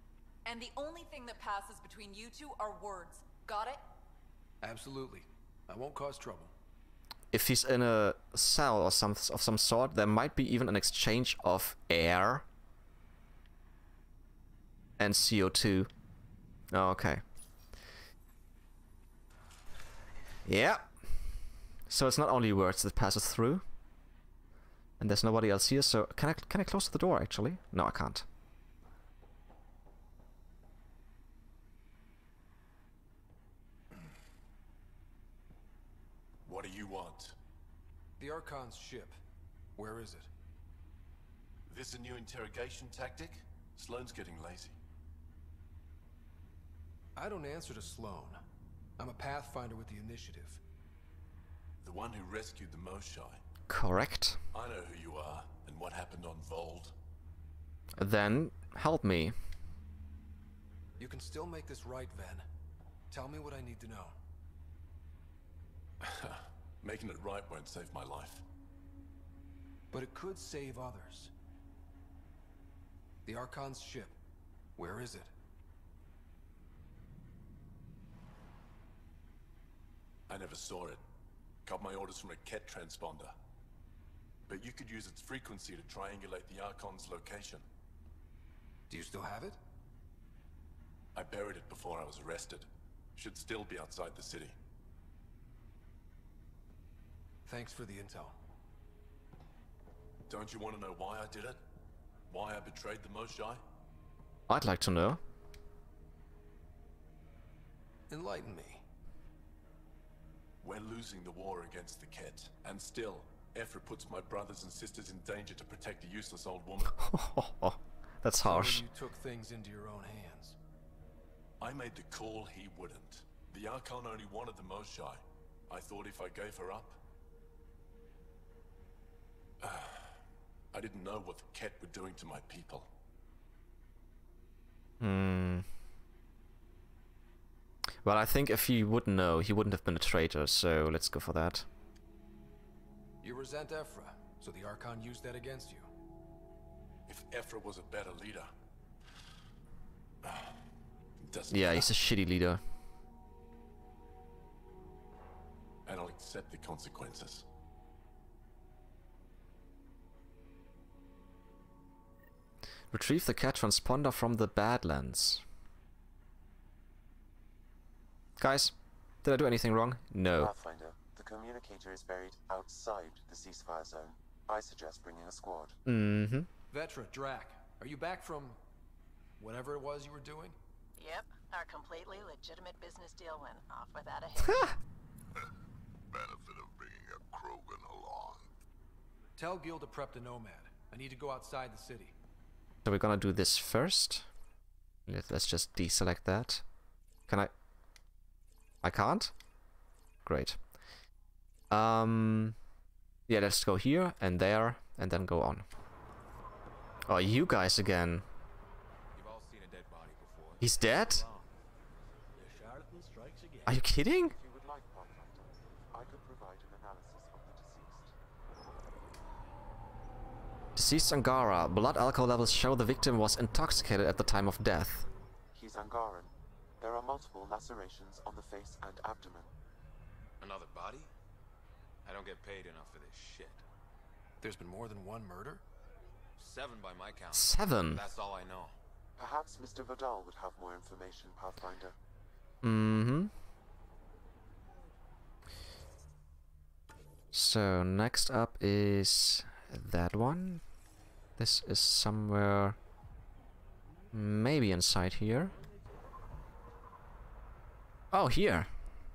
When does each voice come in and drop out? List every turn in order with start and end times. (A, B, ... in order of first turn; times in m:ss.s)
0:00.4-0:03.8 A
0:04.6-0:06.5 B
0:07.3-0:12.4 C
0:15.0-0:15.9 C
0:16.7-0:17.2 C
0:20.4-0:20.9 C
0:21.9-0:23.6 C
0:25.0-0:28.2 C
0:36.4-0:37.4 D
0:38.2-0:39.2 B
0:39.8-0:40.3 B
0:41.7-0:44.8 D
0:47.2-0:48.4 B
0:49.0-0:50.6 B
0:51.8-0:53.4 D
0:53.7-0:54.4 C
0:54.5-0:56.9 D
0:58.0-0:59.4 C
1:01.0-1:02.4 B
1:03.1-1:04.2 B
1:06.0-1:08.4 D
1:09.9-1:11.3 B
1:13.2-1:14.2 B
1:14.8-1:15.3 B
1:20.3-1:21.0 D
1:21.6-1:23.3 D
1:24.5-1:27.6 D
1:28.9-1:29.6 B
1:31.1-1:34.6 D
1:37.4-1:38.4 B
1:40.3-1:41.6 D
1:42.3-1:43.6 D
1:44.5-1:45.2 C
1:48.1-1:48.8 B
1:50.6-1:56.9 D
1:56.9-1:58.8 C
1:58.4-2:00.6 B
2:01.6-2:07.0 D
2:09.6-2:10.2 D
2:10.7-2:12.9 D
2:15.0-2:15.6 C
2:18.0-2:21.7 C
2:23.2-2:25.9 B
2:27.1-2:28.5 D
2:30.2-2:30.6 D
2:31.2-2:31.9 D
2:31.5-2:32.6 C
2:35.8-2:37.4 D
2:42.9-2:45.4 C
2:48.4-2:50.5 C
2:50.3-2:55.8 E
2:55.8-2:56.5 C
2:56.7-2:58.6 B
2:59.4-3:00.6 B
3:01.0-3:04.7 F
3:06.1-3:08.5 G
3:09.4-3:12.1 B
3:12.8-3:14.3 C
3:15.1-3:16.6 C
3:18.8-3:19.3 C
3:20.2-3:20.6 C
3:21.7-3:22.6 C
3:23.3-3:25.6 C
3:27.1-3:28.2 C
3:29.1-3:31.5 H
3:30.6-3:31.2 C
3:32.3-3:33.8 H
3:33.6-3:34.4 C
3:34.3-3:38.1 E
3:40.8-3:45.1 C
3:45.5-3:49.5 E
3:50.4-3:51.1 H
3:52.0-3:53.6 H
3:54.4-3:55.6 B
3:56.4-3:58.8 H
3:57.3-3:58.0 C
3:59.2-4:01.9 E
4:02.6-4:03.3 C
4:07.3-4:10.6 C
4:11.4-4:12.8 C
4:14.1-4:15.5 C
4:18.1-4:18.7 C